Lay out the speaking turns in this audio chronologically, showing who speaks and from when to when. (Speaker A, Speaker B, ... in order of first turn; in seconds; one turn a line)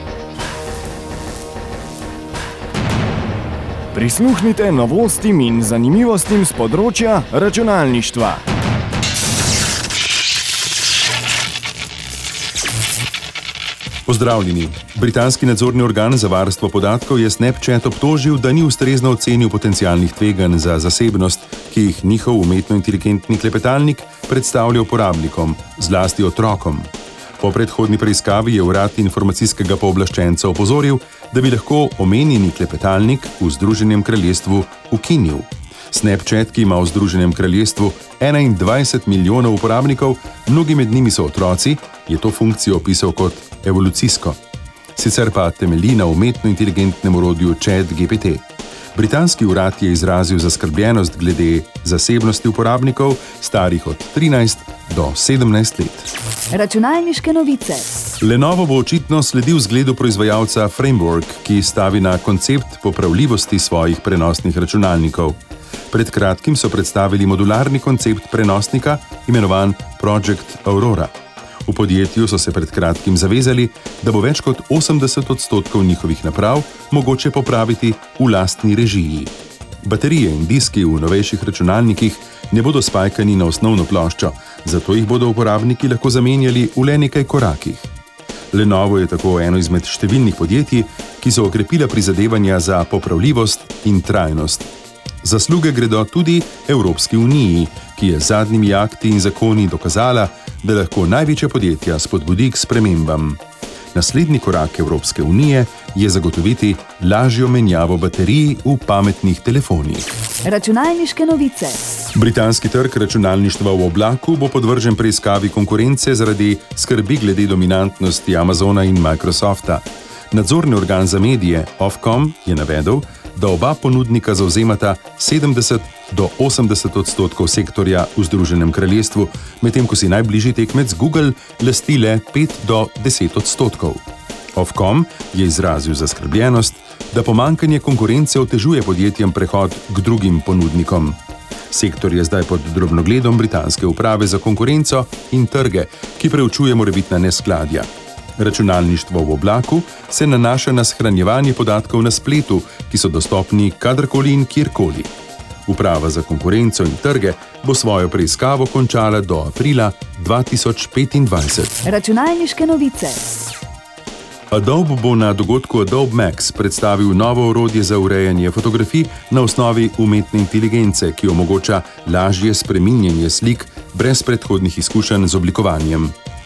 Speaker A: 3.9-8.4
Speaker B: 14.1-44.4
Speaker B: 45.0-56.1
Speaker C: 56.5-57.9
Speaker B: 58.2-65.4
Speaker B: 65.9-71.1
Speaker B: 71.7-79.3
Speaker B: 79.8-87.9
Speaker B: 88.5-94.7
Speaker B: 95.2-103.4
Speaker B: 103.9-110.1
Speaker C: 110.4-111.8
Speaker B: 112.2-134.0
Speaker B: 134.6-141.2
Speaker B: 141.7-155.1
Speaker B: 155.7-161.8
Speaker C: 161.8-163.3
Speaker B: 164.5-176.2